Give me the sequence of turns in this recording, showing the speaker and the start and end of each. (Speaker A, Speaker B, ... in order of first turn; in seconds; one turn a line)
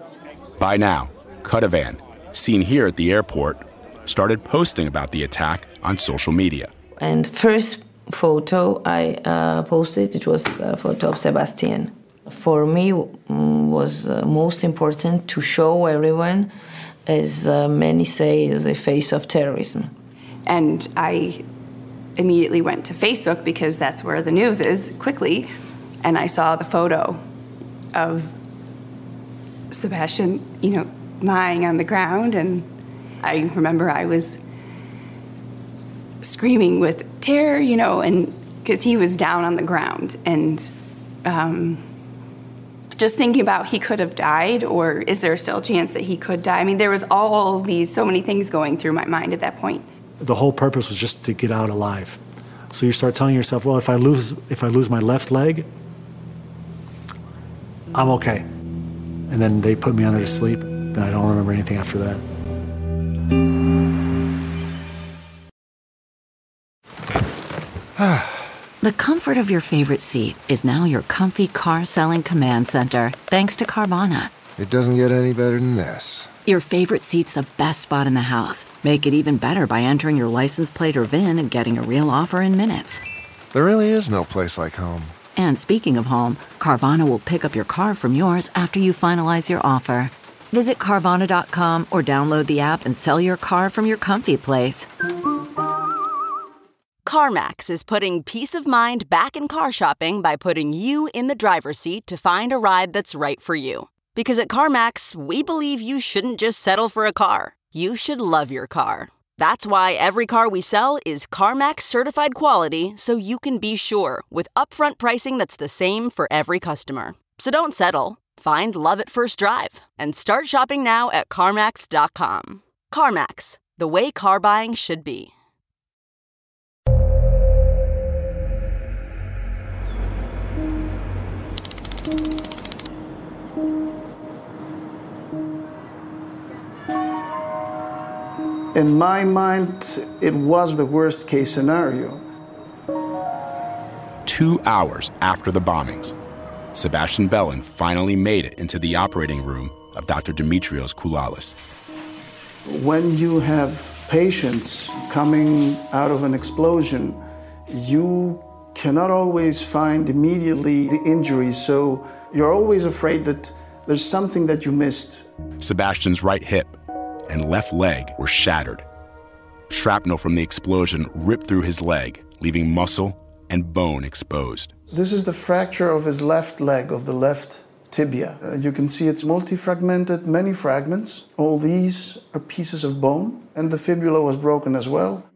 Speaker A: 0.6-6.7
Speaker B: 7.0-16.5
Speaker B: 17.1-19.9
Speaker C: 20.5-21.4
Speaker C: 22.2-25.5
Speaker C: 26.0-27.2
Speaker C: 27.9-28.3
Speaker C: 29.7-32.7
Speaker C: 33.2-34.4
Speaker C: 36.2-40.7
Speaker C: 41.2-41.8
Speaker C: 43.0-49.9
Speaker D: 50.2-52.2
Speaker D: 52.7-55.7
Speaker D: 57.9-58.5
Speaker D: 59.3-62.2
Speaker E: 68.0-68.5
Speaker F: 68.8-74.3
Speaker E: 74.6-76.3
Speaker F: 76.5-83.0
Speaker E: 83.5-85.2
Speaker F: 85.3-94.9
Speaker G: 97.0-125.3
Speaker H: 138.7-142.2
Speaker A: 144.3-146.1
Speaker A: 146.8-151.6
Speaker H: 152.7-165.3
Speaker A: 165.6-166.8
Speaker A: 167.3-168.8
Speaker A: 169.7-174.7
Speaker H: 174.9-185.3